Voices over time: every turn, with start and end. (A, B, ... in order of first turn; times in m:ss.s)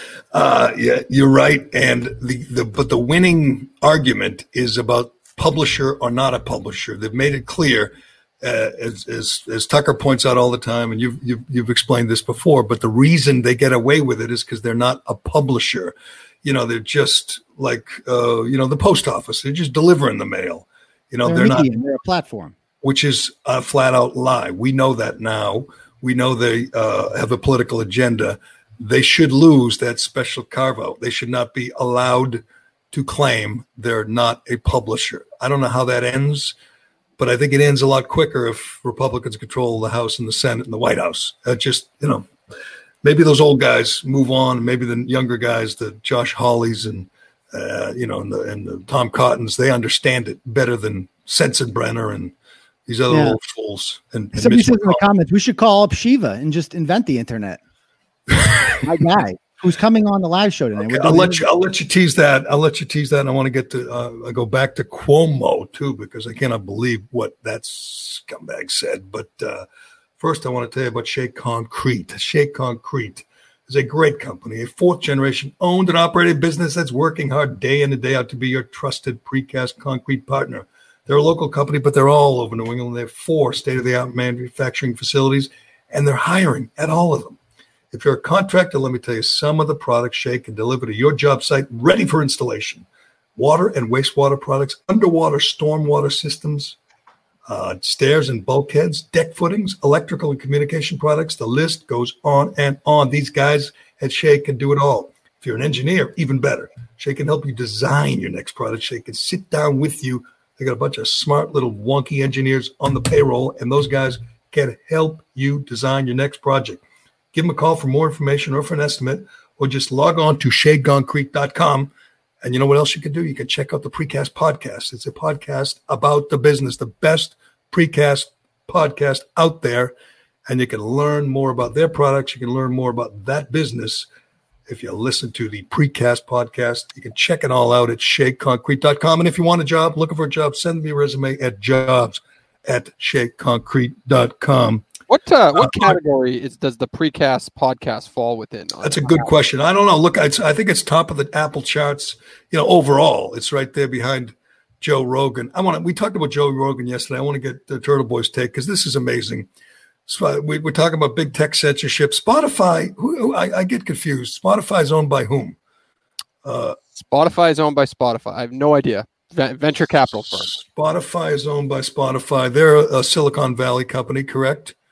0:00.3-0:21.7 A
0:21.2-0:22.5 B
0:22.8-0:36.5 A
0:37.2-0:42.3 A
0:43.0-0:52.3 A
0:52.9-0:55.1 A
0:53.1-0:53.4 B
0:54.4-0:57.6 B
0:58.3-0:58.8 A
0:58.8-1:01.4 B
1:00.8-1:09.6 A
1:10.2-1:27.4 A
1:27.9-1:32.8 A
1:33.4-1:36.8 A
1:37.5-1:56.8 A
1:57.3-2:01.9 A
2:02.4-2:09.9 A
2:10.5-2:14.1 A
2:14.7-2:24.8 A
2:25.1-2:29.2 C
2:25.6-2:26.0 A
2:28.8-2:39.5 A
2:40.1-2:45.6 A
2:46.4-2:46.8 A
2:47.0-2:50.5 C
2:50.2-2:54.7 A